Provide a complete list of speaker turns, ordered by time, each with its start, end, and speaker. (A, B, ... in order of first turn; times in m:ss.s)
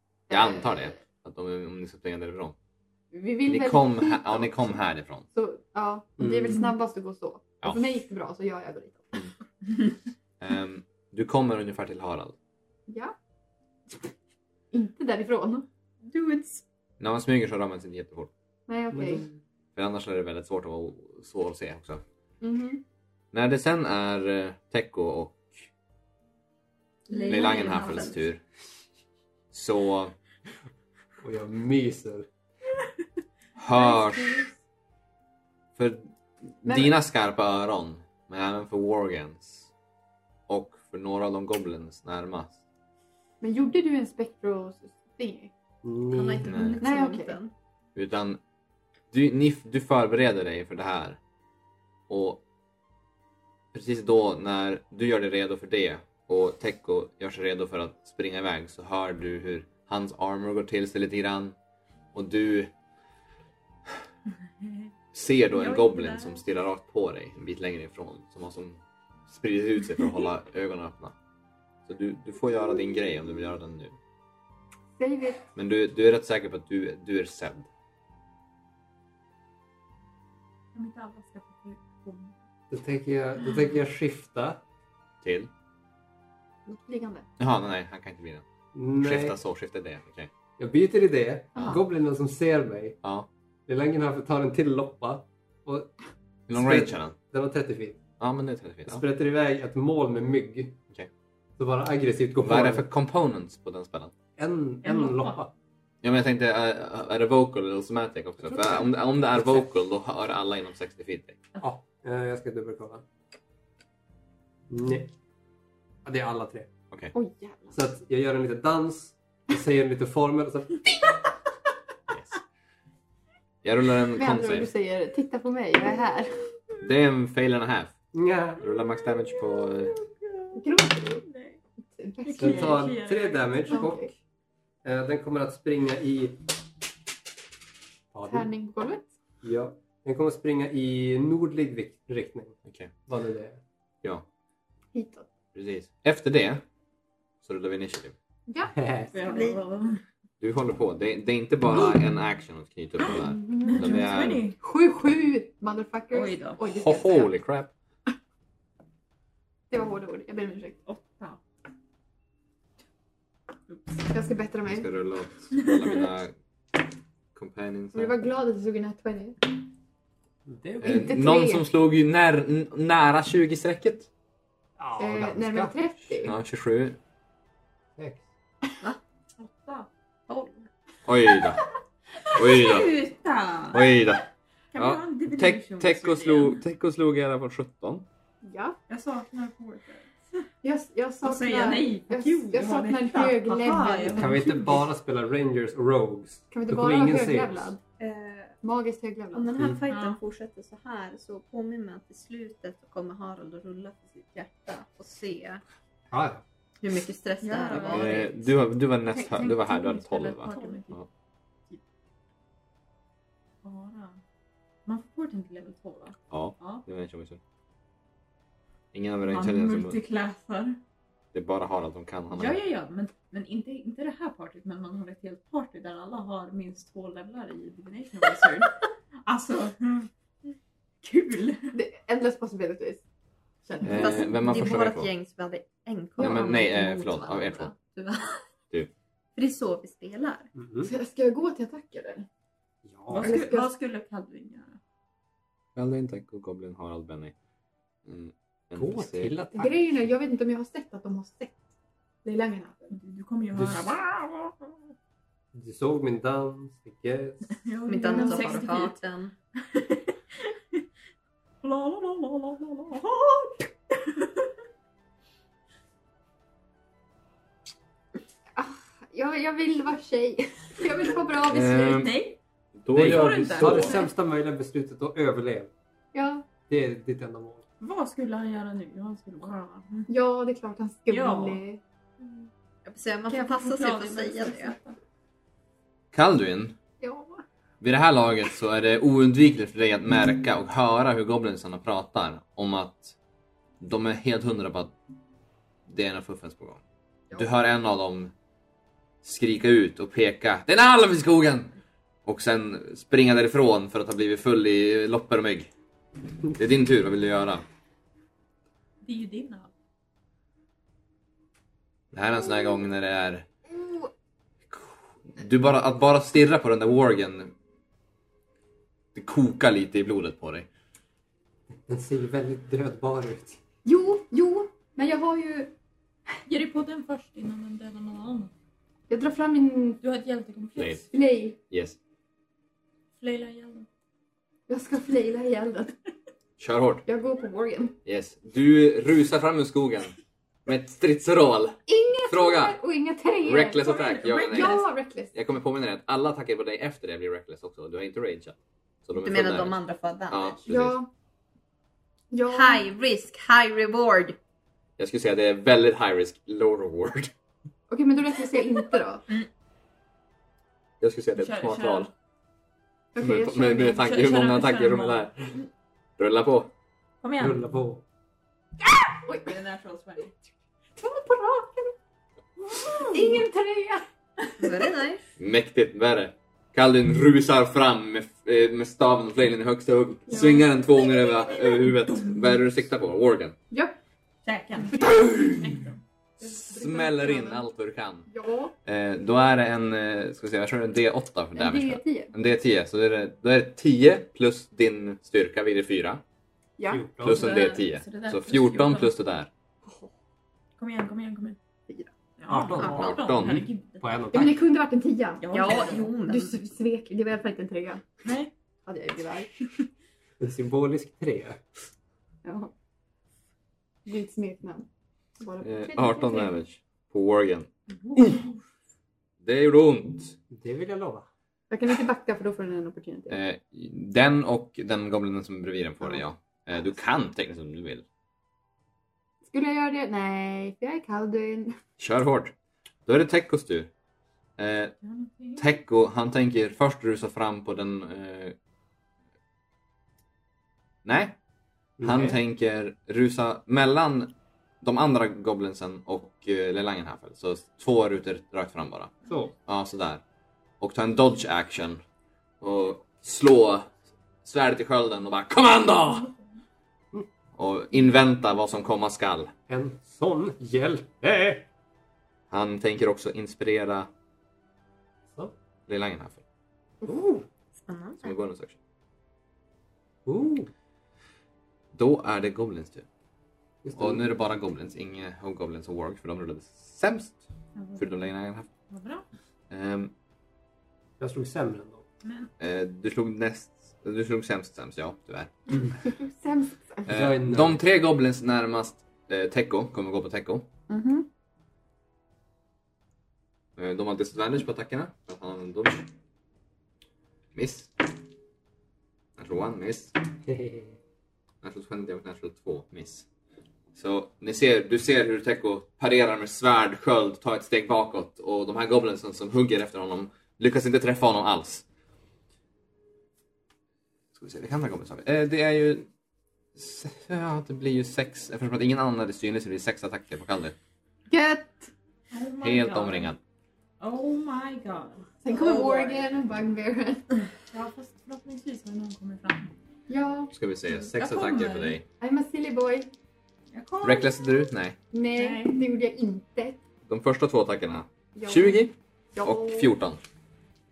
0:00.3-0:00.9 A
0:00.3-0:02.6 B
0:03.1-0:04.8 A
0:03.5-0:05.3 B
0:05.3-0:09.1 A
0:06.2-0:06.6 C
0:10.4-0:12.4 B
0:12.9-0:13.2 A
0:14.7-0:15.7 A
0:16.0-0:16.6 D
0:17.0-0:18.3 B
0:18.7-0:19.2 A
0:18.9-0:19.4 C
0:19.8-0:22.0 B
0:22.4-0:22.8 A
0:23.3-0:25.5 B
0:27.1-0:28.2 D
0:27.3-0:28.4 B
0:29.5-0:30.1 B
0:31.2-0:32.3 C
0:33.6-0:34.5 B
0:33.7-0:34.5 A
0:35.8-0:39.7 B
0:36.6-0:36.9 A
0:40.5-0:42.6 B
0:43.4-0:45.5 A
0:45.8-0:46.7 C
0:46.1-0:47.5 D
0:46.4-0:46.8 B
0:46.8-0:47.4 A
0:48.0-0:48.4 B
0:49.1-0:51.2 B
0:52.1-0:52.4 B
0:53.7-1:01.6 B
1:02.1-1:02.7 B
1:05.1-1:11.2 B
1:05.5-1:06.4 E
1:11.9-1:14.0 B
1:15.0-1:15.5 A
1:15.6-1:17.7 B
1:20.7-1:22.4 E
1:22.7-1:24.6 C
1:25.2-1:25.5 B
1:26.7-1:27.2 A
1:27.4-1:28.4 B
1:28.7-1:29.4 C
1:29.0-1:30.3 B
1:30.6-1:33.0 C
1:33.0-1:33.3 B
1:33.7-1:35.9 C
1:36.5-1:37.2 B
1:36.5-1:38.0 C
1:38.2-1:39.0 B
1:38.9-1:40.8 C
1:41.6-1:42.9 C
1:42.4-1:44.1 B
1:44.4-1:45.5 C
1:44.8-1:45.4 E
1:46.0-1:51.4 B
1:48.4-1:49.7 C
1:51.6-1:53.0 C
1:54.7-1:55.1 C
1:56.0-1:56.7 C
1:57.1-1:57.8 A
1:57.7-2:00.9 C
2:02.1-2:02.4 B
2:03.6-2:04.7 B
2:04.2-2:06.5 A
2:06.8-2:08.0 B
2:08.1-2:08.6 C
2:08.6-2:10.0 B
2:10.0-2:10.6 E
2:10.6-2:11.2 A
2:11.2-2:11.6 E
2:11.9-2:12.9 A
2:12.2-2:14.0 E
2:12.4-2:14.1 C
2:13.7-2:14.1 A
2:14.8-2:16.4 C
2:18.1-2:18.5 C
2:18.3-2:19.1 A
2:19.4-2:22.6 C
2:22.7-2:22.9 B
2:23.1-2:23.6 C
2:24.9-2:25.3 A
2:25.5-2:26.6 B
2:27.4-2:28.2 B
2:28.5-2:29.6 A
2:28.7-2:29.1 C
2:29.1-2:30.0 E
2:30.4-2:34.5 B
2:31.7-2:32.0 E
2:33.0-2:34.6 E
2:33.1-2:34.1 A
2:34.6-2:37.3 A
2:36.1-2:36.6 E
2:36.7-2:37.7 B
2:39.7-2:40.8 A
2:40.9-2:41.4 E
2:43.7-2:44.1 E
2:44.1-2:44.9 A
2:44.6-2:46.3 B
2:45.6-2:46.0 E
2:47.4-2:48.2 B
2:47.9-2:49.4 A
2:50.5-2:51.2 C
2:50.8-2:51.6 A
2:50.8-2:54.1 B
2:54.8-2:55.8 C
2:55.0-2:56.3 A
2:56.2-2:57.0 B
2:58.0-2:58.2 C
2:59.4-2:59.9 E
3:01.1-3:01.6 B
3:02.2-3:04.0 E
3:02.3-3:03.0 B
3:03.7-3:08.1 B
3:04.7-3:06.6 E
3:08.4-3:08.8 A
3:08.9-3:10.5 E
3:10.6-3:14.6 A
3:11.2-3:14.8 E
3:14.1-3:17.7 C
3:16.5-3:17.8 A
3:18.0-3:18.6 D
3:18.6-3:19.5 A
3:19.3-3:25.6 D
3:19.8-3:20.2 E
3:26.1-3:26.4 C
3:26.8-3:28.3 D
3:27.4-3:28.5 E
3:27.9-3:31.1 B
3:29.0-3:31.0 E
3:33.6-3:34.2 E
3:34.9-3:36.8 E
3:36.3-3:37.4 B
3:38.9-3:40.0 B
3:39.2-3:40.8 E
3:41.3-3:42.6 B
3:42.3-3:48.7 E
3:49.3-3:50.1 E
3:51.0-3:51.8 E
3:51.7-3:53.0 A
3:53.7-3:54.4 A
3:53.8-3:58.5 D
3:53.8-3:55.1 B
3:56.2-3:57.8 B
3:56.2-3:56.5 A
3:59.4-4:00.5 D
4:00.6-4:00.9 C
4:00.8-4:02.3 A
4:02.8-4:03.6 C
4:03.1-4:04.8 E
4:03.2-4:03.8 A
4:05.8-4:07.3 B
4:08.1-4:09.3 B
4:08.8-4:09.8 C
4:09.5-4:11.6 A
4:12.2-4:13.0 A
4:12.9-4:14.8 E
4:13.6-4:13.8 C
4:15.5-4:17.4 C
4:17.5-4:19.0 E
4:17.9-4:19.4 D
4:18.1-4:18.6 A
4:19.6-4:20.8 E
4:21.6-4:24.5 E
4:28.6-4:32.1 A
4:31.5-4:32.2 B
4:31.9-4:32.4 E
4:32.8-4:34.0 B
4:32.9-4:35.7 C
4:33.0-4:34.1 E
4:36.1-4:36.5 A
4:36.7-4:37.6 C
4:37.8-4:40.1 E
4:40.1-4:41.8 A
4:41.1-4:41.6 E
4:42.2-4:42.5 E
4:42.8-4:44.8 D
4:43.3-4:45.0 E
4:46.1-4:46.8 B
4:47.0-4:47.4 A
4:47.8-4:53.2 B
4:53.8-4:54.9 B
4:55.9-4:56.8 B
4:57.3-4:58.3 B
4:59.2-5:01.8 B
5:02.3-5:05.7 B
5:06.5-5:07.6 B
5:09.0-5:09.7 E
5:12.1-5:13.5 B
5:13.8-5:14.1 A
5:14.7-5:17.5 B
5:19.2-5:20.7 B
5:21.9-5:23.6 C
5:23.8-5:25.7 A
5:26.5-5:28.5 E
5:29.1-5:30.0 A
5:30.0-5:31.1 E
5:30.8-5:31.0 B
5:31.1-5:31.6 A
5:31.7-5:32.0 B
5:33.2-5:33.9 E
5:34.7-5:36.0 A
5:36.6-5:37.1 B
5:37.1-5:38.0 A
5:38.0-5:42.8 B
5:41.9-5:43.8 A
5:43.4-5:44.8 B
5:43.8-5:44.9 E
5:44.5-5:45.3 A
5:45.3-5:49.8 B
5:49.2-5:50.6 D
5:50.3-5:51.0 B
5:50.7-5:51.1 A
5:52.3-5:52.8 A
5:52.5-5:54.4 D
5:55.0-5:57.3 B
5:57.9-5:59.3 A
6:01.0-6:02.1 B
6:01.4-6:02.1 E
6:03.2-6:03.9 A
6:03.2-6:05.7 B
6:03.8-6:05.3 E
6:06.2-6:06.7 B
6:07.2-6:07.6 E
6:07.4-6:08.0 C
6:09.3-6:10.3 E
6:11.0-6:11.9 A
6:12.6-6:13.4 E
6:13.1-6:14.0 A
6:14.6-6:15.2 D
6:15.4-6:23.6 B
6:20.3-6:20.7 A
6:23.7-6:24.0 A
6:24.4-6:26.0 E
6:26.4-6:28.3 B
6:26.4-6:27.6 A
6:28.3-6:28.7 A
6:28.8-6:36.2 B
6:31.6-6:32.3 A
6:36.8-6:37.1 A
6:36.9-6:37.5 C
6:37.2-6:39.5 B
6:37.2-6:39.1 E
6:40.8-6:41.6 E
6:42.4-6:44.5 E
6:42.5-6:43.4 C
6:42.8-6:43.7 B
6:44.0-6:44.6 C
6:44.3-6:48.0 A
6:45.4-6:46.2 E
6:45.5-6:46.6 D
6:48.2-6:48.5 E
6:48.9-6:49.6 A
6:50.4-6:51.6 C
6:52.4-6:52.7 A
6:54.0-6:54.9 A
6:55.4-6:56.6 A
6:55.6-6:57.7 B
6:58.0-6:58.6 E
6:59.4-7:00.4 B
7:00.5-7:01.3 C
7:01.7-7:03.4 A
7:03.3-7:08.0 B
7:09.4-7:11.8 A
7:12.0-7:12.5 B
7:13.1-7:13.9 B
7:14.6-7:15.0 B
7:15.0-7:15.7 E
7:15.6-7:18.6 B
7:21.0-7:21.4 B
7:22.0-7:22.4 C
7:22.0-7:29.1 B
7:29.3-7:29.5 C
7:29.7-7:30.2 B
7:30.8-7:32.0 B
7:32.6-7:33.9 B
7:34.4-7:36.3 B
7:37.6-7:39.5 B
7:39.7-7:41.7 C
7:42.5-7:44.1 B
7:45.9-7:46.4 B
7:47.0-7:47.5 C
7:47.9-7:48.4 D
7:48.2-7:48.8 B
7:50.3-7:50.7 C
7:51.9-7:53.1 B
7:53.8-7:54.3 C
7:54.0-7:57.4 B
7:57.8-7:58.1 E
7:58.0-7:58.7 B
7:58.9-7:59.3 E
7:59.7-8:00.1 B
8:01.2-8:02.0 C
8:02.2-8:02.5 E
8:02.6-8:05.8 B
8:05.8-8:07.1 A
8:07.1-8:07.8 C
8:07.1-8:10.7 B
8:10.9-8:11.3 A
8:13.8-8:16.1 B
8:17.6-8:18.1 B
8:19.4-8:20.2 B
8:20.4-8:21.0 C
8:21.6-8:23.3 B
8:24.0-8:31.8 B
8:34.4-8:36.1 B
8:36.8-8:40.8 B
8:41.3-8:41.9 A
8:42.3-8:43.3 E
8:42.6-8:43.4 B
8:44.0-8:45.3 E
8:45.4-8:47.3 A
8:45.5-8:46.3 D
8:47.7-8:49.7 E
8:50.1-8:50.5 A
8:50.5-8:52.0 B
8:50.9-8:52.0 E
8:52.2-8:53.1 A
8:53.7-8:54.6 E
8:54.0-8:55.0 B
8:55.1-8:56.8 A
8:55.3-8:55.8 E
8:57.1-9:00.2 B
8:58.4-8:58.8 A
8:59.4-8:59.9 A